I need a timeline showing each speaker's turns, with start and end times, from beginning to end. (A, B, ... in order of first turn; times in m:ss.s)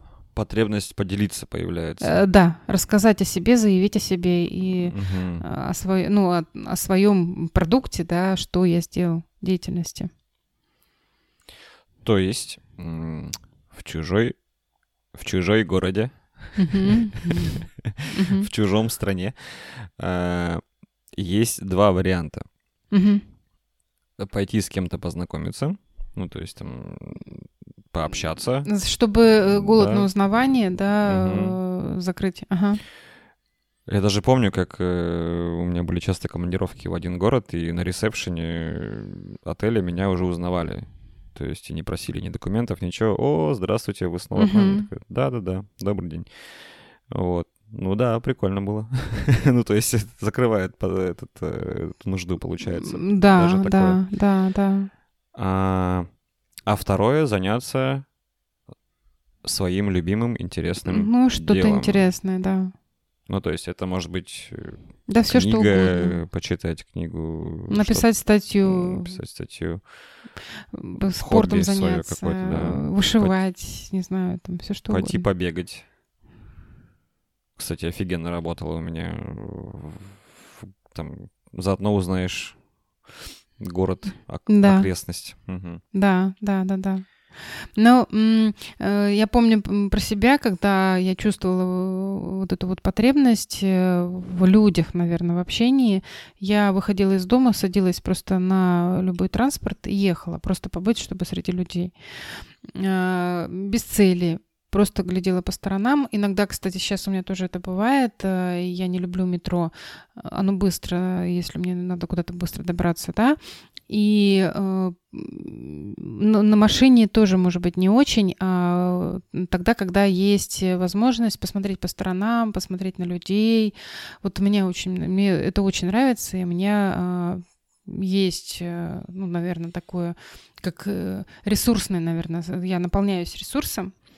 0:00.3-0:02.3 A
0:02.0-0:10.1 B
0:04.8-0:05.4 A
0:12.0-0:14.4 A
0:15.1-0:20.6 A
0:16.6-0:18.5 B
0:21.1-0:22.5 A
0:22.9-0:23.2 B
0:24.2-0:28.7 A
0:28.6-0:32.8 B
0:29.4-0:30.1 A
0:31.0-0:31.6 A
0:33.9-0:54.0 A
0:44.4-0:44.9 B
0:52.6-0:54.9 B
0:55.3-0:56.1 A
0:56.6-0:58.1 A
0:59.4-1:02.1 A
1:00.8-1:02.7 B
1:03.3-1:10.2 A
1:05.1-1:06.2 B
1:07.7-1:09.2 B
1:10.7-1:15.2 B
1:11.0-1:13.4 A
1:14.9-1:15.9 A
1:17.6-1:25.8 A
1:24.5-1:24.9 B
1:25.9-2:14.0 B